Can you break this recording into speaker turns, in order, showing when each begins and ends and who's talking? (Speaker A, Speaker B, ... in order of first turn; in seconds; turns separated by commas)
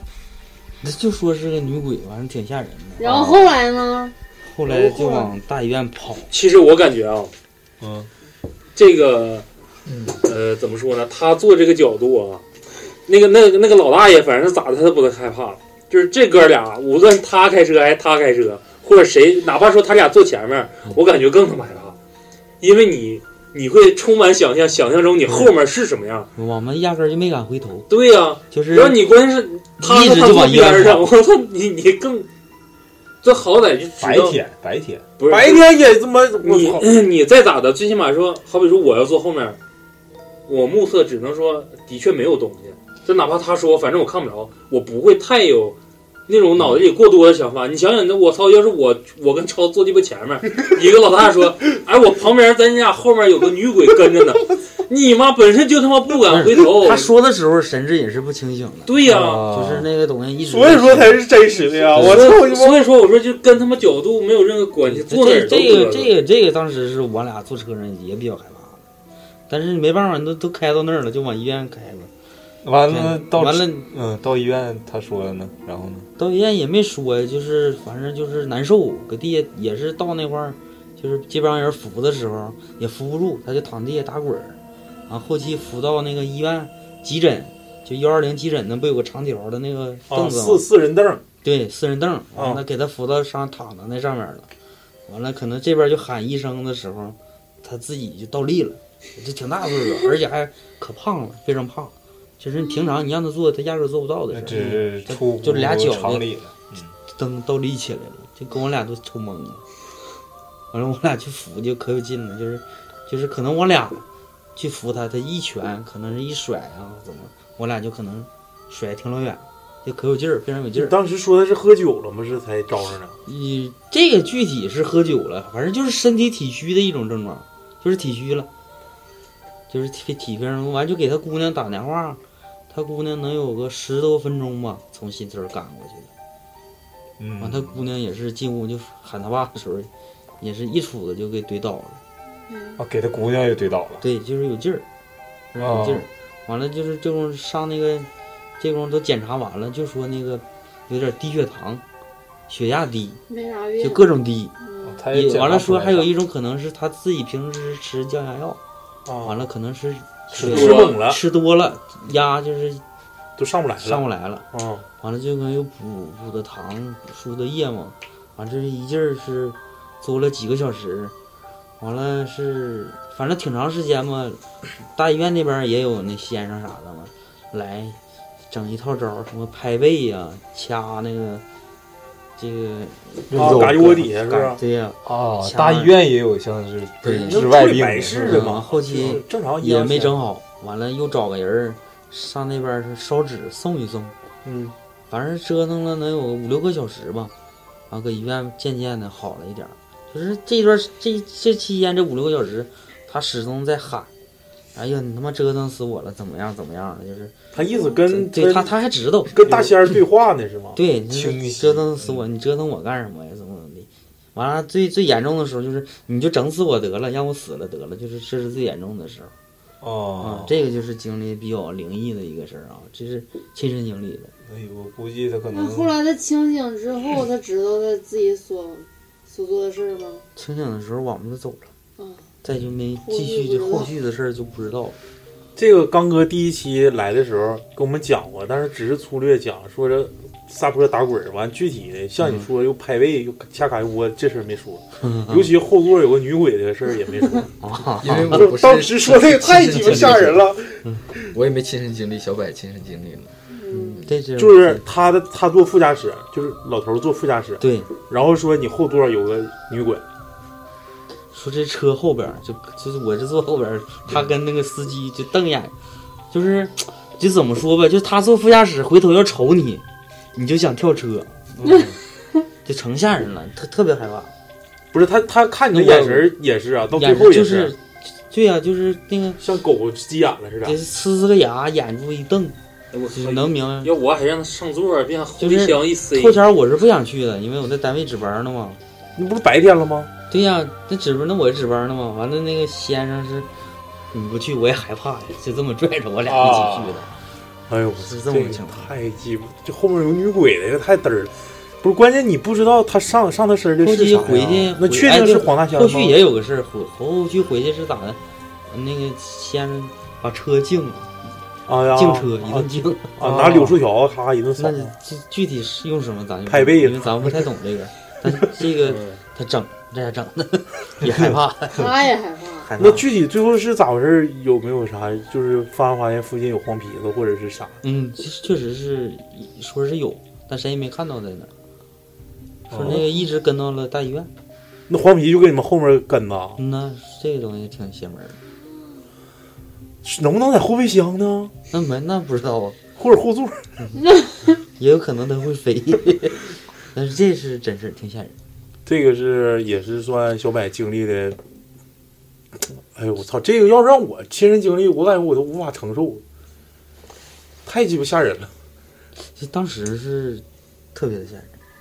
Speaker A: 0.8-3.2, Speaker B: 3.0-4.1, Speaker C: 3.0-3.4, Speaker A: 4.4-6.3, Speaker B: 4.7-5.3, Speaker D: 6.3-7.3, Speaker C: 7.8-8.1, Speaker D: 8.8-9.5, Speaker E: 9.9-10.2, Speaker D: 10.2-12.4, Speaker D: 13.1-22.0, Speaker D: 22.6-26.3, Speaker A: 26.4-27.9, Speaker D: 27.9-32.3, Speaker A: 28.5-29.0, Speaker A: 29.8-31.0, Speaker D: 33.2-34.4, Speaker C: 34.0-35.0, Speaker D: 35.2-35.7, Speaker F: 35.3-36.9, Speaker D: 36.4-39.6, Speaker D: 40.5-57.1, Speaker A: 56.3-61.2, Speaker D: 58.9-59.5, Speaker C: 59.0-59.9, Speaker F: 60.5-62.9, Speaker D: 61.9-66.1, Speaker A: 64.9-68.8, Speaker A: 69.5-72.1, Speaker C: 72.6-76.1, Speaker A: 72.9-73.9, Speaker A: 76.2-84.6, Speaker A: 85.1-90.7, Speaker F: 90.1-91.2, Speaker A: 91.4-94.5, Speaker F: 92.3-92.6, Speaker A: 95.1-106.3, Speaker C: 104.3-107.0, Speaker A: 107.1-109.6, Speaker A: 110.7-114.0, Speaker A: 114.6-121.0, Speaker F: 120.8-123.2, Speaker A: 123.2-128.5, Speaker A: 129.7-136.1, Speaker C: 137.2-137.8, Speaker A: 137.4-139.9, Speaker A: 140.4-142.0, Speaker B: 142.5-142.8, Speaker C: 142.8-144.0, Speaker A: 144.0-144.8, Speaker A: 145.5-148.1, Speaker C: 145.6-146.1, Speaker A: 148.6-151.8, Speaker A: 152.5-153.2, Speaker B: 153.3-154.1, Speaker A: 153.8-154.5, Speaker B: 154.6-155.0, Speaker C: 154.8-156.1, Speaker A: 155.1-158.6, Speaker F: 159.0-159.4, Speaker A: 159.2-162.8, Speaker F: 160.3-161.2, Speaker D: 160.4-161.0, Speaker F: 163.4-164.8, Speaker A: 163.8-164.5, Speaker A: 165.0-171.1, Speaker A: 171.8-178.0, Speaker A: 178.5-181.4, Speaker A: 182.4-185.9, Speaker C: 183.3-183.9, Speaker F: 183.3-184.6, Speaker C: 185.0-188.6, Speaker A: 187.0-187.5, Speaker F: 187.2-190.2, Speaker A: 188.2-194.1, Speaker F: 194.4-194.8, Speaker A: 195.1-197.3, Speaker A: 197.9-204.1, Speaker A: 204.8-207.3, Speaker F: 207.5-208.7, Speaker A: 208.1-209.4, Speaker F: 209.3-210.8, Speaker A: 210.8-219.3, Speaker C: 211.1-212.2, Speaker C: 219.8-220.6, Speaker A: 220.2-224.3, Speaker C: 224.5-226.0, Speaker B: 225.5-230.2, Speaker A: 230.4-231.7, Speaker B: 232.0-232.3, Speaker A: 232.4-235.0, Speaker B: 233.0-233.9, Speaker F: 235.6-247.5, Speaker A: 245.0-245.5, Speaker A: 247.6-248.5, Speaker E: 248.0-250.5, Speaker F: 248.1-251.3, Speaker E: 251.3-254.1, Speaker B: 253.5-254.1, Speaker A: 253.8-254.8, Speaker F: 254.4-260.0, Speaker A: 257.6-257.9, Speaker A: 261.3-265.7, Speaker A: 266.3-269.8, Speaker A: 270.4-271.5, Speaker F: 271.6-271.9, Speaker A: 272.6-274.3, Speaker F: 274.9-277.7, Speaker A: 275.7-276.3, Speaker A: 276.9-279.4, Speaker F: 279.4-280.8, Speaker A: 280.6-282.6, Speaker D: 282.9-286.4, Speaker A: 283.1-283.9, Speaker A: 285.4-288.8, Speaker F: 289.2-290.1, Speaker A: 290.3-293.5, Speaker A: 294.1-297.2, Speaker C: 296.2-297.1, Speaker F: 297.7-306.2, Speaker A: 298.0-298.9, Speaker A: 303.8-311.3, Speaker F: 311.7-314.9, Speaker A: 311.9-313.7, Speaker A: 314.6-322.0, Speaker F: 316.5-317.4, Speaker D: 318.9-319.2, Speaker B: 321.7-322.7, Speaker A: 322.6-323.1, Speaker F: 322.8-327.8, Speaker A: 327.8-331.5, Speaker A: 332.7-334.3, Speaker F: 334.9-336.6, Speaker A: 336.6-338.4, Speaker F: 340.0-341.5, Speaker A: 341.7-342.8, Speaker F: 343.0-343.6, Speaker A: 344.8-348.4, Speaker F: 348.9-351.4, Speaker F: 352.9-356.2, Speaker F: 357.6-358.5, Speaker A: 359.4-361.5